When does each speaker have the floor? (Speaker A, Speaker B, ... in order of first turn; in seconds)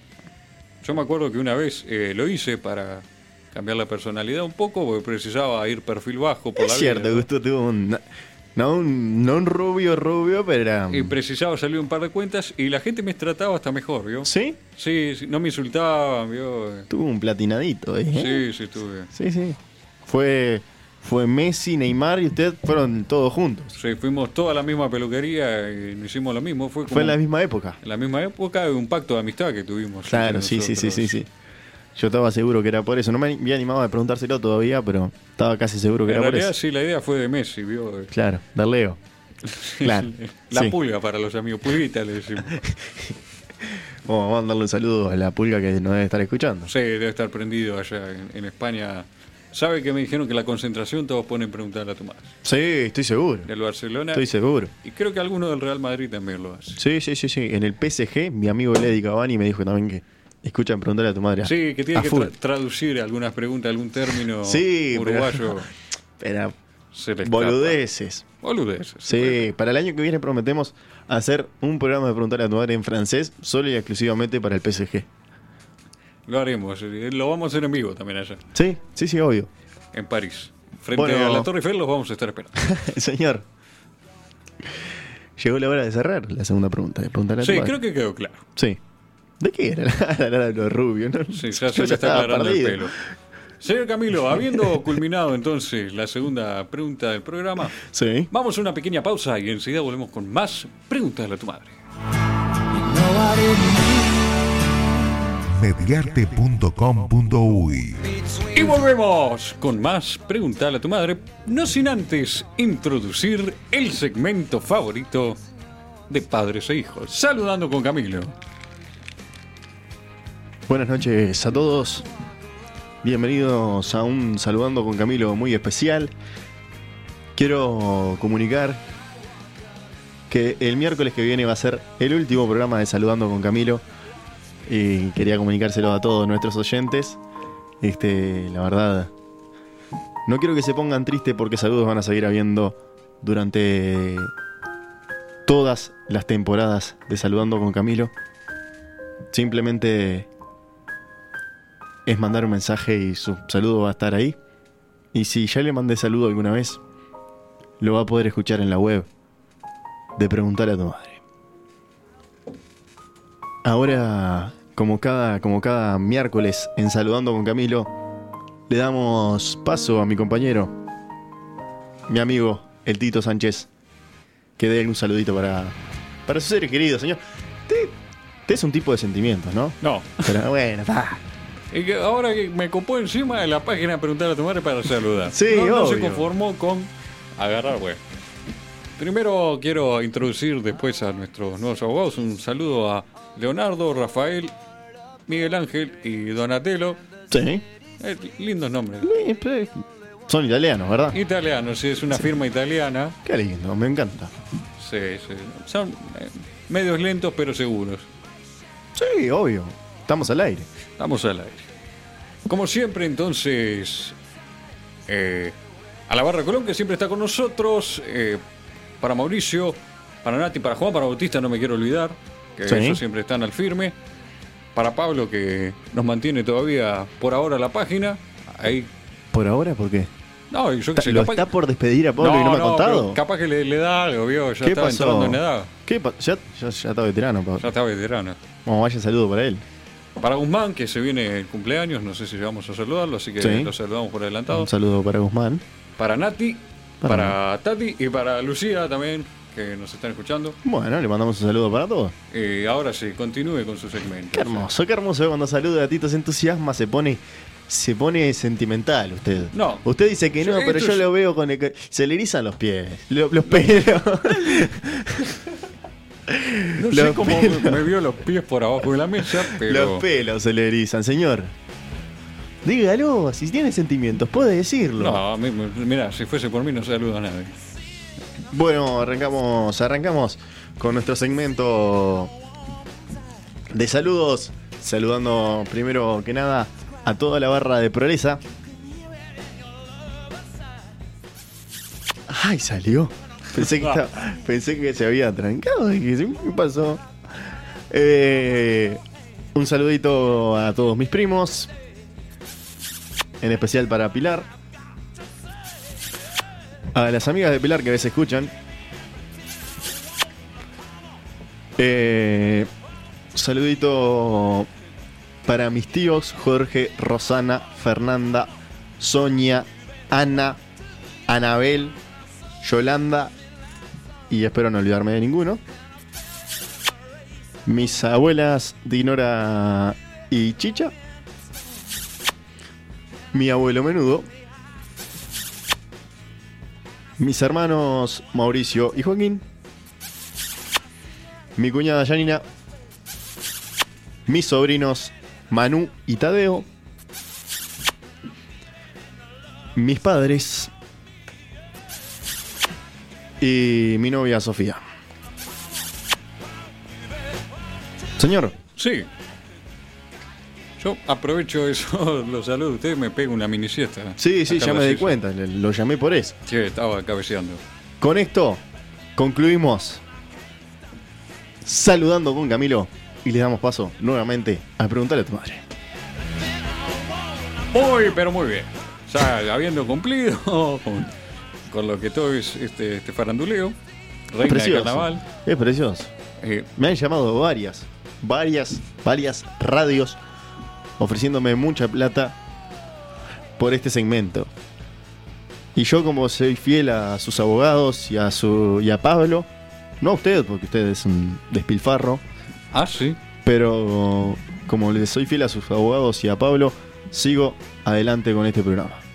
Speaker A: 0.8-7.3, 10.9-16.9, 18.1-19.1, 23.7-27.2, 27.8-31.2, 36.0-38.1, 39.4-42.6, 46.7-52.3, 53.4-54.3, 54.8-56.8, 61.4-65.7, 66.9-67.8, 68.4-69.5, 76.3-78.4, 79.9-82.7, 87.4-88.4, 91.3-93.0, 93.6-97.8, 98.3-101.8, 108.5-115.4, 116.1-118.3, 179.8-180.4, 181.7-188.0, 189.0-194.5, 195.3-197.0, 198.0-199.1, 201.1-203.2, 204.8-208.1, 211.0-211.7, 212.5-214.2, 215.1-215.6, 216.1-218.4, 219.0-223.9, 224.7-228.9, 230.5-231.5, 232.2-235.7, 237.6-238.4, 240.2-244.7, 246.0-250.6, 252.3-254.7, 259.5-259.9, 260.4-261.1, 263.5-264.6, 266.7-270.1, 275.0-277.5, 358.8-359.1, 360.8-365.1, 366.4-367.6, 377.7-381.1, 381.7-383.8, 384.3-385.2, 386.4-386.7, 402.7-403.2
Speaker B: 6.6-8.0, 8.5-11.1, 14.2-14.6, 16.9-18.4, 19.1-23.7, 26.9-27.8, 30.1-31.3, 31.9-36.5, 38.1-39.0, 39.8-40.8, 42.5-43.1, 43.6-46.7, 52.4-53.5, 54.1-54.7, 56.8-62.3, 64.4-65.6, 66.2-66.5, 67.2-68.2, 69.0-75.1, 78.5-79.5, 80.9-81.5, 82.6-83.4, 85.4-87.8, 89.4-93.0, 97.8-98.3, 120.7-122.1, 123.0-126.1, 127.3-128.8, 130.3-133.8, 134.7-137.2, 137.8-139.1, 140.2-144.3, 145.4-148.1, 149.3-150.3, 152.1-154.4, 155.1-156.8, 157.8-159.1, 160.2-161.2, 163.6-167.9, 168.7-170.8, 172.1-173.7, 174.6-175.7, 176.2-177.9, 178.5-181.2, 185.3-186.3, 197.3-197.6, 199.0-201.2, 203.2-204.3, 208.9-210.7, 222.6-223.0, 229.3-230.1, 230.9-233.2, 234.6-237.7, 238.6-239.6, 243.4-243.7, 244.5-245.6, 247.0-247.3, 250.6-252.1, 254.3-265.5, 266.3-267.9, 269.2-271.5, 272.6-275.2, 278.5-282.3, 283.7-288.4, 292.3-299.0, 299.5-301.7, 303.4-304.5, 306.9-308.5, 311.8-312.7, 313.3-314.7, 315.4-320.6, 321.3-322.0, 322.6-323.3, 324.3-325.6, 327.6-330.9, 333.3-334.3, 337.2-339.4, 341.6-342.4, 344.2-346.7, 349.7-350.7, 353.4-354.8, 358.2-358.6, 364.2-366.4, 368.0-368.6, 369.1-370.0, 371.6-375.6, 384.4-386.1, 386.8-390.2, 391.0-392.4, 393.6-394.5, 395.7-399.5, 400.0-402.2, 403.4-409.0
Speaker C: 102.7-104.3, 105.4-108.7